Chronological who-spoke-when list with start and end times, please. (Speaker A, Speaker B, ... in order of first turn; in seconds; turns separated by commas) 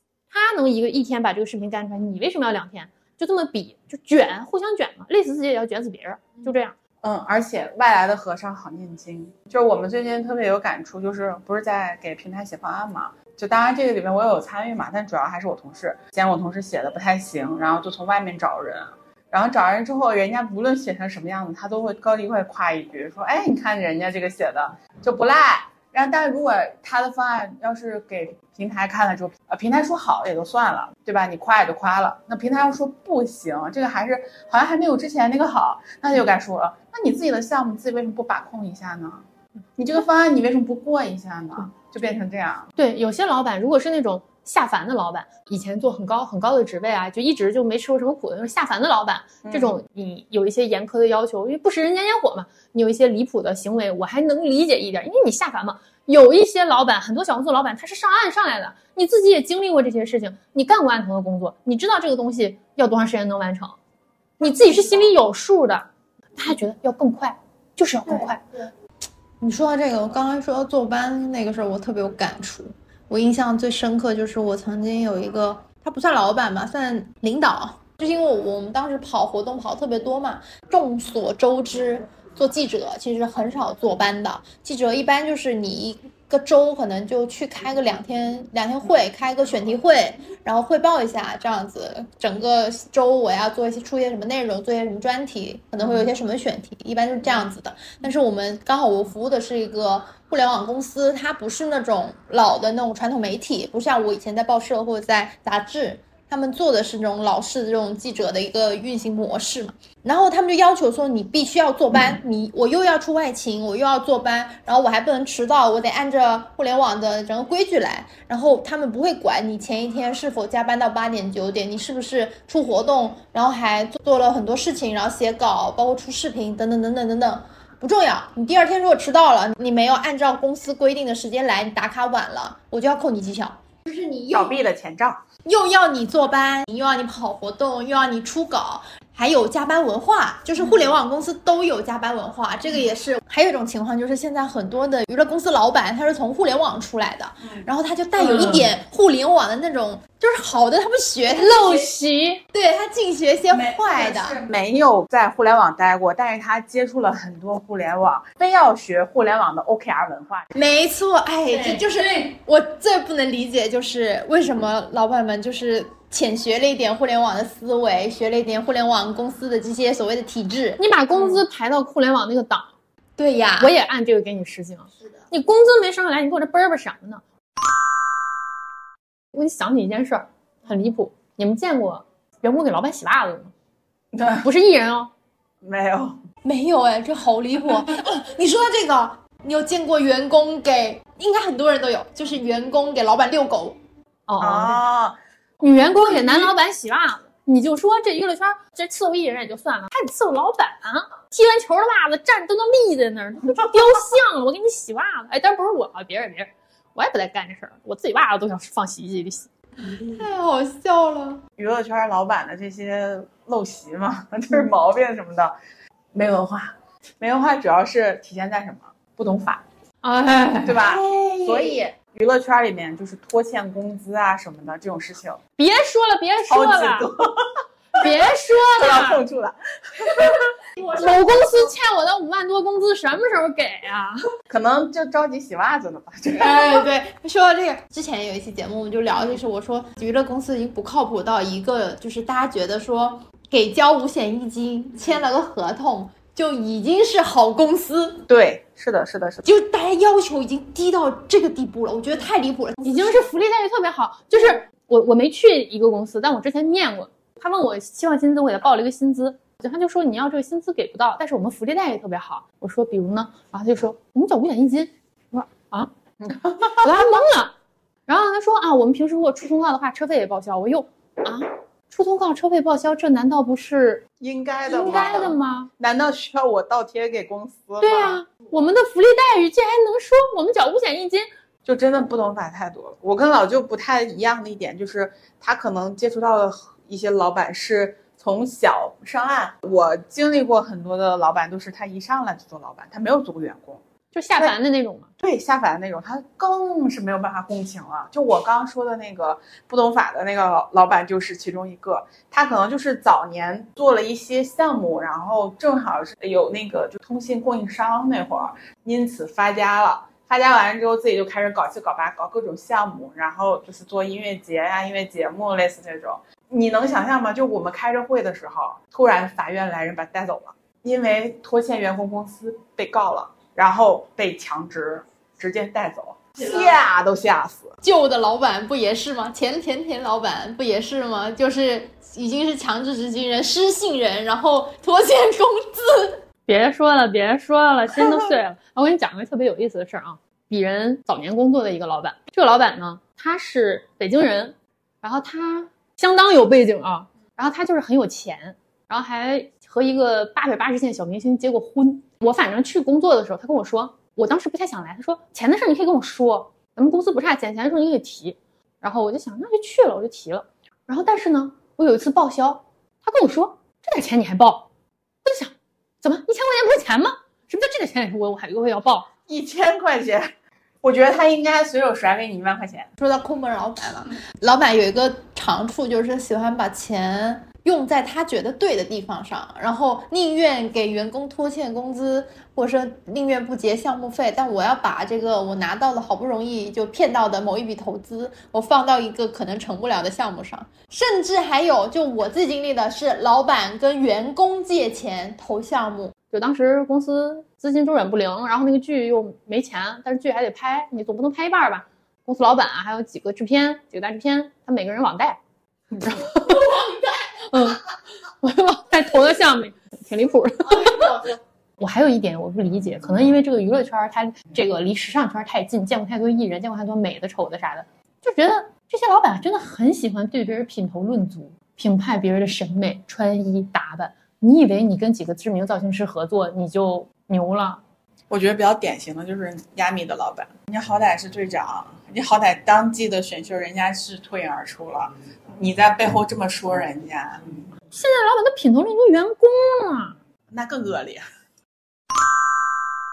Speaker A: 0.3-6.8, Speaker B: 7.0-39.2, Speaker B: 39.8-42.7, Speaker A: 42.8-63.8, Speaker B: 49.4-49.8, Speaker A: 64.4-68.4, Speaker C: 68.0-68.3, Speaker C: 69.4-134.6, Speaker B: 134.3-135.2, Speaker C: 135.4-151.9, Speaker A: 151.3-152.4, Speaker C: 152.5-154.4, Speaker B: 153.5-160.5, Speaker C: 160.5-170.8, Speaker A: 170.8-172.7, Speaker C: 173.2-173.7, Speaker A: 173.6-177.2, Speaker A: 179.3-183.5, Speaker B: 184.1-184.5, Speaker A: 184.4-185.1, Speaker B: 185.6-186.2, Speaker C: 186.4-193.8, Speaker A: 194.3-194.8, Speaker B: 194.4-195.2, Speaker A: 195.6-209.5, Speaker B: 196.1-196.4, Speaker C: 210.1-211.4, Speaker B: 211.6-215.5, Speaker B: 216.1-219.6, Speaker A: 220.0-220.7, Speaker B: 220.6-225.4, Speaker C: 220.7-221.8, Speaker A: 225.6-227.1, Speaker B: 226.5-230.5, Speaker A: 228.0-229.2, Speaker A: 230.9-234.2, Speaker B: 234.5-236.9, Speaker C: 236.3-248.2, Speaker B: 248.3-249.4, Speaker C: 249.4-253.3, Speaker A: 252.8-265.9, Speaker B: 266.2-266.9, Speaker A: 266.8-267.5, Speaker A: 268.1-274.0, Speaker B: 274.2-278.2, Speaker A: 274.7-275.7, Speaker A: 277.8-281.2, Speaker B: 281.6-293.8, Speaker A: 294.1-295.1, Speaker B: 295.2-327.8, Speaker C: 327.8-336.2, Speaker A: 336.5-364.7, Speaker A: 365.2-369.1, Speaker B: 369.3-370.3, Speaker B: 370.8-372.9, Speaker C: 373.0-396.1, Speaker A: 396.3-405.4, Speaker A: 406.0-406.9, Speaker A: 407.4-407.8, Speaker A: 408.4-411.2, Speaker A: 411.8-427.8, Speaker B: 428.3-437.4, Speaker A: 437.9-440.1, Speaker B: 440.5-441.2